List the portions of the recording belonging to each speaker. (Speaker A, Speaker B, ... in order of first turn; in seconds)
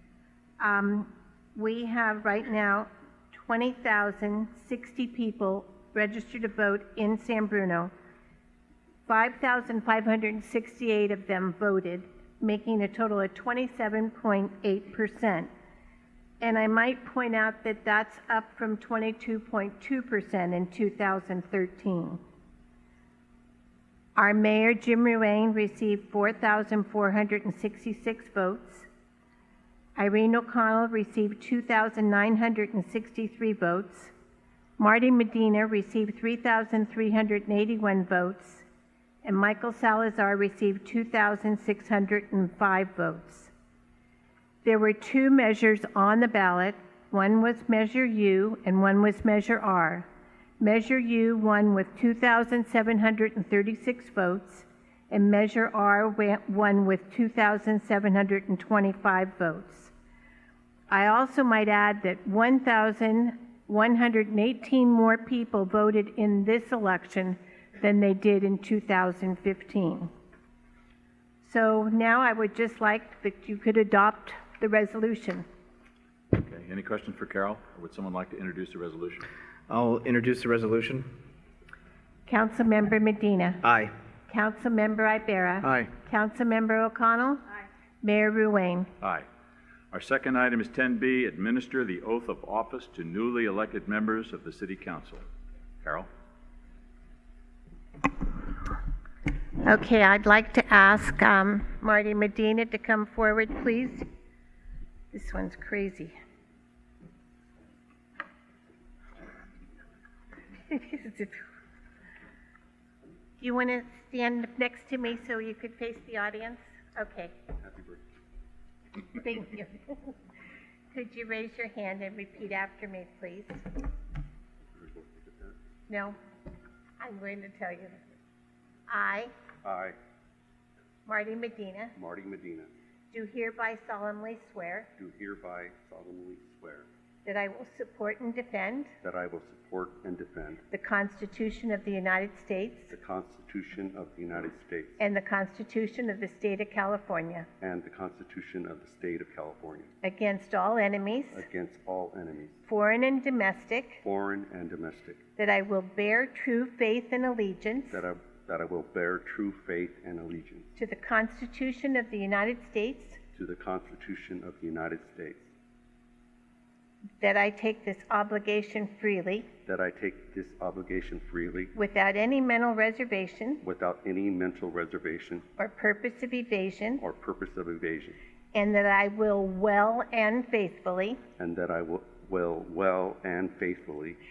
Speaker A: 0.6-7.9, 9.1-15.5, 16.4-22.2, 24.2-28.9, 30.0-34.1, 34.8-38.6, 39.2-43.5, 44.6-50.1, 50.6-59.9, 60.9-70.1, 71.4-75.5, 82.3-83.6, 84.3-87.4, 88.0-88.9, 99.6-104.0, 105.1-106.2, 110.7-111.4, 113.4-117.3, 119.1-120.1, 120.9-123.6, 125.9-126.2, 127.0-128.1, 128.9-129.3, 131.1-131.9, 133.1-134.9, 137.2-138.9, 140.7-142.9, 145.0-147.5, 150.0-151.4, 152.7-154.0, 155.4-158.0, 160.8-163.2, 167.2-169.5, 171.8-173.6, 175.6-177.0, 178.5-181.2
Speaker B: 76.3-79.2, 89.0-89.3, 89.9-95.2, 95.8-96.1
Speaker C: 79.7-81.1, 83.6-83.9, 85.6-85.9
Speaker D: 117.6-118.0, 124.7-125.6, 129.6-130.0, 132.0-132.7, 135.0-136.9, 139.0-140.6, 142.9-145.0, 147.6-149.9, 151.3-152.6, 154.0-155.2, 157.9-160.7, 163.3-165.5, 169.7-171.7, 173.6-175.4, 177.0-178.2, 181.4-184.2